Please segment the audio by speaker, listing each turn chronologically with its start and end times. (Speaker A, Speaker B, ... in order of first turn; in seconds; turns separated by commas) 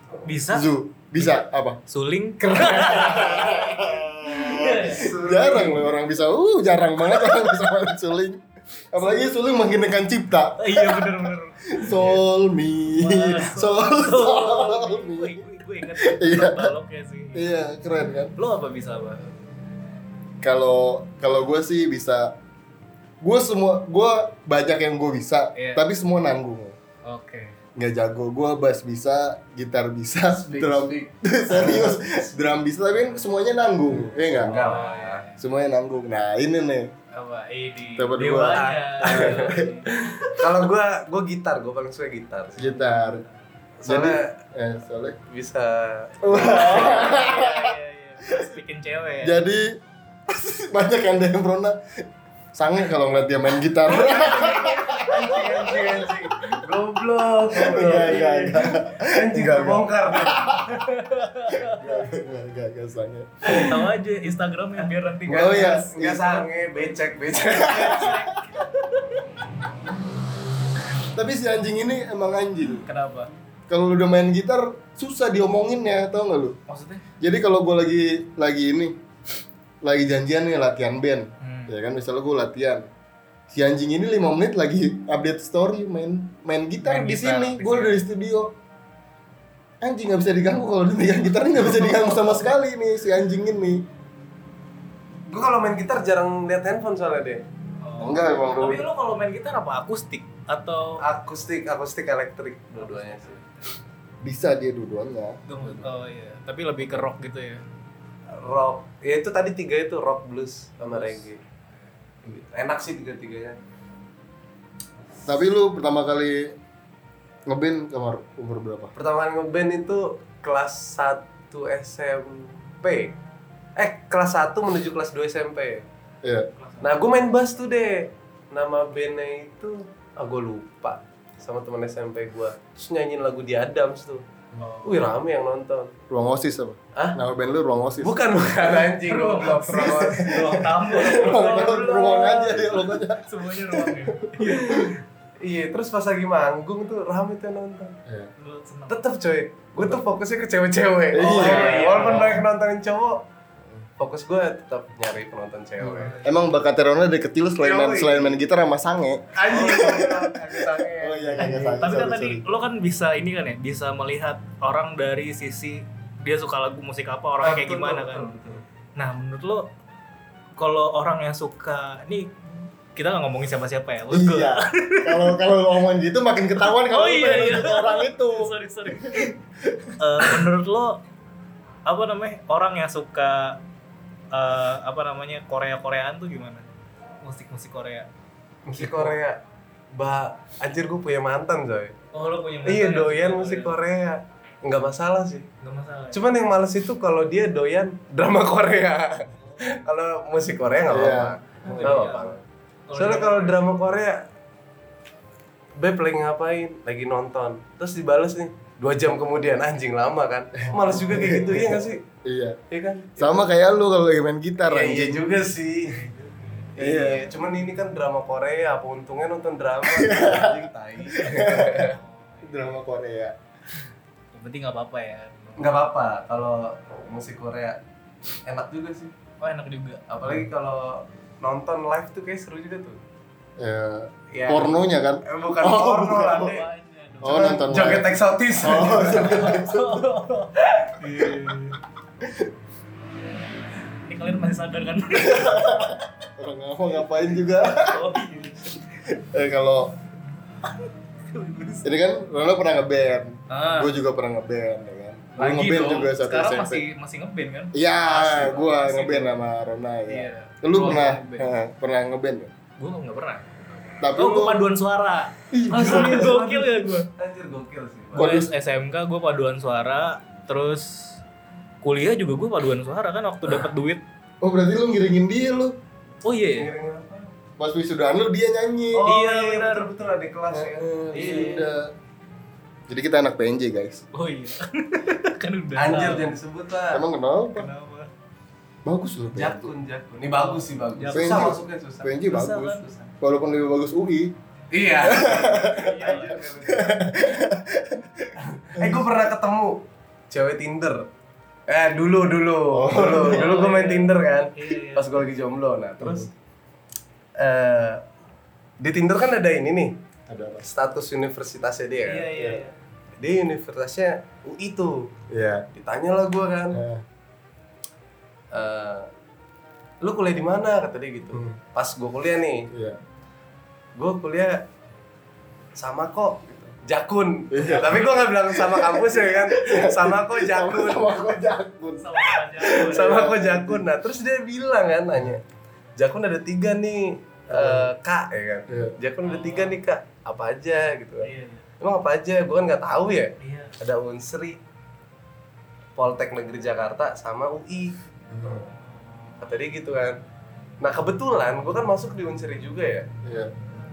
Speaker A: 0.2-0.7, Speaker B: 0.5-1.8, Speaker A: 1.9-5.1, Speaker B: 2.4-15.4, Speaker C: 4.6-5.9, Speaker A: 9.0-9.2, Speaker A: 10.6-12.2, Speaker A: 12.9-17.5, Speaker B: 16.0-16.7, Speaker B: 17.3-18.3, Speaker A: 18.4-19.3, Speaker B: 20.4-22.4, Speaker B: 23.2-26.8, Speaker A: 25.5-25.8, Speaker A: 27.0-27.6, Speaker B: 27.8-34.7, Speaker C: 30.4-32.2, Speaker C: 34.4-35.2, Speaker A: 34.4-35.4, Speaker B: 35.4-36.9, Speaker A: 37.1-39.9, Speaker B: 38.0-39.8, Speaker C: 38.5-42.7, Speaker B: 42.6-43.2, Speaker A: 42.7-43.1, Speaker C: 43.8-44.3, Speaker B: 43.9-45.2, Speaker C: 45.3-47.0, Speaker B: 46.2-47.7, Speaker A: 46.3-49.4, Speaker B: 49.2-51.8, Speaker B: 52.5-56.5, Speaker C: 53.9-60.9, Speaker A: 54.0-55.4, Speaker B: 57.5-60.7, Speaker A: 57.6-58.6, Speaker A: 60.6-62.0, Speaker B: 61.5-63.7, Speaker A: 63.5-66.0, Speaker C: 65.3-68.1, Speaker B: 65.3-66.4, Speaker A: 67.5-68.8, Speaker B: 67.6-68.6, Speaker B: 71.0-72.8, Speaker A: 72.8-73.3, Speaker B: 73.7-76.6, Speaker A: 76.7-77.0, Speaker B: 77.2-79.0, Speaker B: 79.8-82.9, Speaker A: 81.4-81.8, Speaker B: 83.5-88.5, Speaker A: 86.8-88.0, Speaker B: 89.8-93.8, Speaker A: 91.6-92.4, Speaker C: 95.3-97.4, Speaker A: 97.8-101.0, Speaker B: 98.0-98.9, Speaker C: 101.0-103.4, Speaker A: 102.8-103.7, Speaker B: 104.2-105.8, Speaker A: 105.5-107.6, Speaker C: 108.3-111.4, Speaker A: 110.8-111.2, Speaker C: 112.2-113.6, Speaker B: 115.2-116.5, Speaker B: 117.5-118.9, Speaker C: 119.0-123.2, Speaker C: 123.8-125.8, Speaker B: 126.2-126.5, Speaker A: 126.6-126.9, Speaker C: 126.8-134.2, Speaker A: 134.6-135.1, Speaker C: 134.8-135.9, Speaker B: 136.1-138.2, Speaker C: 138.0-140.4, Speaker A: 139.0-145.0, Speaker B: 139.7-144.5, Speaker C: 145.4-148.0, Speaker A: 148.4-149.0, Speaker C: 148.9-153.2, Speaker B: 151.1-152.4, Speaker A: 151.1-152.4, Speaker C: 154.0-156.1, Speaker B: 155.8-162.4, Speaker A: 156.0-156.4, Speaker C: 157.6-158.3, Speaker C: 159.3-161.6, Speaker A: 161.4-169.7, Speaker C: 167.4-168.6, Speaker A: 170.6-175.4, Speaker B: 174.1-180.3, Speaker A: 176.6-179.3, Speaker A: 180.0-181.0, Speaker A: 181.9-183.6, Speaker A: 184.3-186.7, Speaker A: 187.2-188.1, Speaker C: 188.7-189.4, Speaker A: 188.8-189.2, Speaker C: 189.9-191.9, Speaker A: 192.1-193.8, Speaker C: 192.7-195.5, Speaker A: 195.6-196.2, Speaker C: 196.1-202.4, Speaker B: 200.9-202.0, Speaker A: 201.6-203.6, Speaker C: 202.9-204.2, Speaker C: 205.8-212.0, Speaker A: 210.7-211.6, Speaker B: 210.9-212.6, Speaker C: 212.7-213.3, Speaker B: 213.2-215.3, Speaker C: 214.6-216.0, Speaker A: 215.9-216.7, Speaker C: 216.8-222.0, Speaker B: 216.8-217.2, Speaker B: 219.8-223.3, Speaker A: 221.8-222.8, Speaker A: 224.3-225.8, Speaker C: 225.6-227.8, Speaker C: 228.4-229.1, Speaker A: 229.4-230.0, Speaker C: 230.1-233.0, Speaker B: 233.6-236.5, Speaker C: 234.3-236.6, Speaker A: 236.2-237.7, Speaker B: 237.2-238.1, Speaker C: 237.2-239.5, Speaker B: 238.6-240.1, Speaker A: 238.9-241.8, Speaker B: 242.2-242.5, Speaker A: 244.0-245.9, Speaker B: 245.1-248.1, Speaker A: 247.6-248.8, Speaker B: 249.1-249.9, Speaker A: 251.3-251.9, Speaker B: 251.8-256.8, Speaker A: 253.5-253.9, Speaker A: 255.4-259.4, Speaker B: 257.7-262.5, Speaker A: 260.1-261.5, Speaker A: 262.8-267.1, Speaker B: 264.0-264.6, Speaker B: 265.5-266.3, Speaker C: 265.7-268.4, Speaker A: 268.1-271.2, Speaker B: 268.2-268.4, Speaker A: 271.8-274.0, Speaker B: 274.4-275.8, Speaker A: 276.2-276.7, Speaker C: 276.6-277.3, Speaker B: 277.6-279.1, Speaker C: 278.9-281.6, Speaker A: 279.0-279.9, Speaker B: 280.5-281.9, Speaker A: 281.1-281.7, Speaker B: 282.9-284.1, Speaker A: 284.1-286.4, Speaker C: 285.8-287.0, Speaker B: 286.9-287.7, Speaker A: 287.5-288.1, Speaker B: 288.8-289.7, Speaker C: 289.3-292.1, Speaker A: 290.4-291.6, Speaker B: 291.1-294.3, Speaker A: 292.2-292.9, Speaker C: 292.8-293.1, Speaker C: 294.7-297.1, Speaker B: 295.0-299.0, Speaker A: 295.6-296.4, Speaker C: 298.4-301.1, Speaker C: 301.7-306.3, Speaker B: 302.7-303.5, Speaker A: 303.0-305.1, Speaker B: 306.0-306.3, Speaker C: 307.4-308.0, Speaker C: 308.8-309.9, Speaker B: 310.3-310.7, Speaker C: 310.6-312.3, Speaker A: 312.0-312.8, Speaker C: 313.2-315.1, Speaker B: 315.3-315.6, Speaker C: 315.8-316.8, Speaker B: 316.7-317.0, Speaker C: 318.5-319.1, Speaker C: 320.0-322.7, Speaker B: 322.7-323.0, Speaker C: 323.9-324.6, Speaker C: 325.8-331.2, Speaker B: 327.5-333.8, Speaker A: 332.0-333.3, Speaker C: 332.6-335.4, Speaker C: 336.0-341.3, Speaker B: 337.5-337.9, Speaker B: 338.7-338.9, Speaker A: 339.2-339.8, Speaker A: 341.2-341.7, Speaker C: 341.8-344.6, Speaker A: 343.4-343.7, Speaker C: 345.9-347.9, Speaker B: 348.3-348.6, Speaker C: 349.4-350.2, Speaker C: 350.8-353.1, Speaker B: 353.2-353.5